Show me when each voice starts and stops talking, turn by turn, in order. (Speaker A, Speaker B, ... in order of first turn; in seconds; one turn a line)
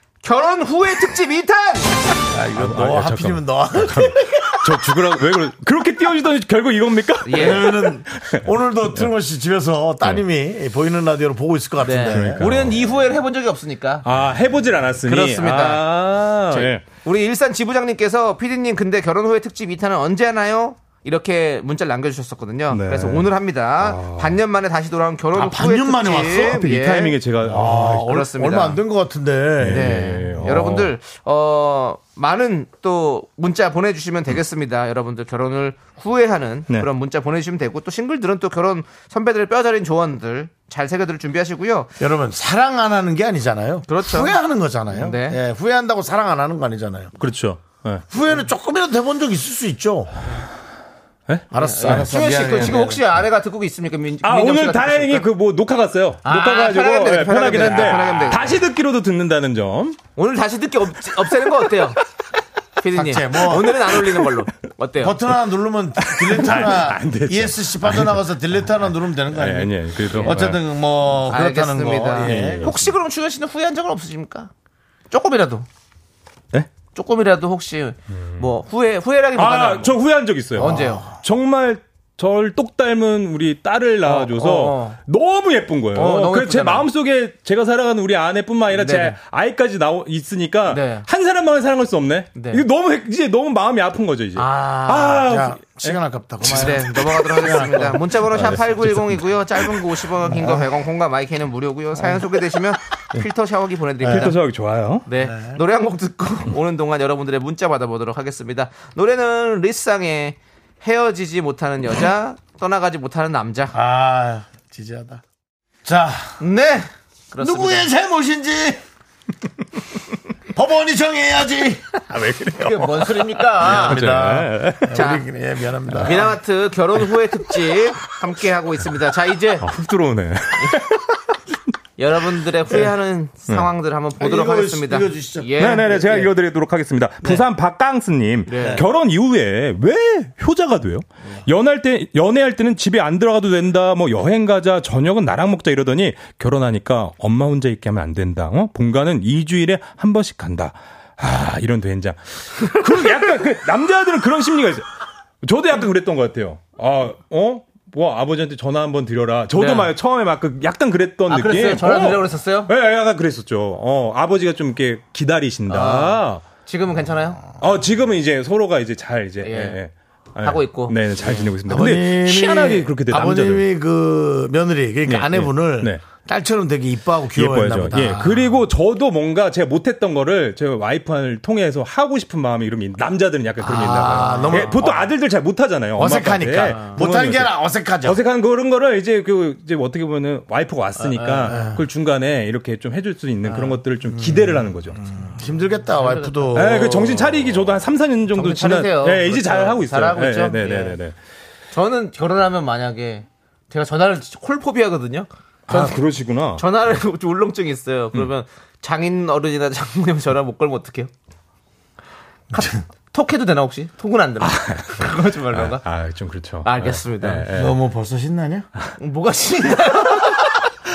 Speaker A: 0.2-2.1
Speaker B: 2.3-4.8
Speaker C: 2.5-9.1
Speaker A: 7.2-7.7
Speaker B: 7.3-12.6
Speaker A: 11.8-14.1
Speaker C: 12.1-13.0
Speaker C: 14.0-16.8
Speaker A: 15.0-15.9
Speaker A: 16.5-27.2
Speaker C: 22.7-24.4
Speaker B: 25.3-26.6
Speaker C: 26.4-28.1
Speaker B: 27.4-30.0
Speaker A: 27.8-28.8
Speaker C: 29.6-30.9
Speaker A: 29.7-41.9
Speaker B: 42.0-47.1
Speaker A: 43.9-44.4
Speaker A: 44.9-45.4
Speaker C: 47.2-48.0
Speaker B: 48.1-50.1
Speaker C: 51.3-52.1
Speaker B: 51.5-53.0
Speaker A: 51.6-55.3
Speaker C: 54.2-60.0
Speaker A: 56.2-58.6
Speaker A: 60.1-62.0
Speaker A: 62.8-65.2
Speaker B: 62.9-63.8
Speaker B: 65.0-72.8
Speaker C: 66.0-68.2
Speaker C: 69.3-70.6
Speaker A: 70.1-70.4
Speaker A: 71.3-74.5
Speaker C: 72.2-72.9
Speaker A: 75.1-75.7
Speaker A: 76.9-80.0
Speaker C: 78.1-78.5
Speaker C: 79.3-96.0
Speaker A: 80.5-81.1
Speaker B: 80.6-81.1
Speaker A: 84.0-85.0
Speaker A: 85.9-86.9
Speaker A: 88.7-89.2
Speaker A: 90.7-91.0
Speaker A: 92.3-92.6
Speaker A: 94.3-95.3
Speaker B: 95.2-98.0
Speaker A: 96.5-104.4
Speaker C: 98.3-99.8
Speaker B: 100.3-100.7
Speaker B: 104.0-104.3
Speaker C: 104.0-105.0
Speaker A: 105.0-113.8
Speaker B: 105.2-105.6
Speaker B: 113.7-115.2
Speaker B: 115.8-116.4
Speaker A: 116.4-117.9
Speaker B: 117.4-118.8
Speaker B: 120.5-122.0
Speaker C: 122.1-124.9
Speaker A: 122.6-124.0
Speaker B: 123.6-126.3
Speaker A: 124.9-125.2
Speaker A: 125.9-129.7
Speaker C: 129.6-131.0
Speaker A: 132.0-136.3
Speaker B: 134.2-136.1
Speaker C: 135.6-154.8
Speaker A: 138.5-138.8
Speaker C: 155.4-166.4
Speaker A: 159.5-159.9
Speaker A: 161.3-162.7
Speaker A: 165.7-167.4
Speaker C: 167.6-173.7
Speaker A: 169.4-169.8
Speaker A: 170.4-171.5
Speaker B: 171.7-178.5
Speaker C: 175.1-176.0
Speaker C: 177.3-195.0
Speaker A: 183.6-184.8
Speaker B: 183.8-185.1
Speaker B: 186.0-188.2
Speaker A: 186.6-187.0
Speaker A: 191.1-191.7
Speaker B: 191.4-191.8
Speaker A: 193.4-193.8
Speaker B: 194.1-197.2
Speaker A: 195.9-196.7
Speaker C: 196.5-201.2
Speaker A: 198.3-201.0
Speaker A: 201.7-206.0
Speaker C: 205.7-206.6
Speaker A: 206.6-211.1
Speaker A: 212.5-215.8
Speaker C: 214.4-217.8
Speaker A: 216.6-217.4
Speaker B: 217.5-218.7
Speaker A: 219.0-220.6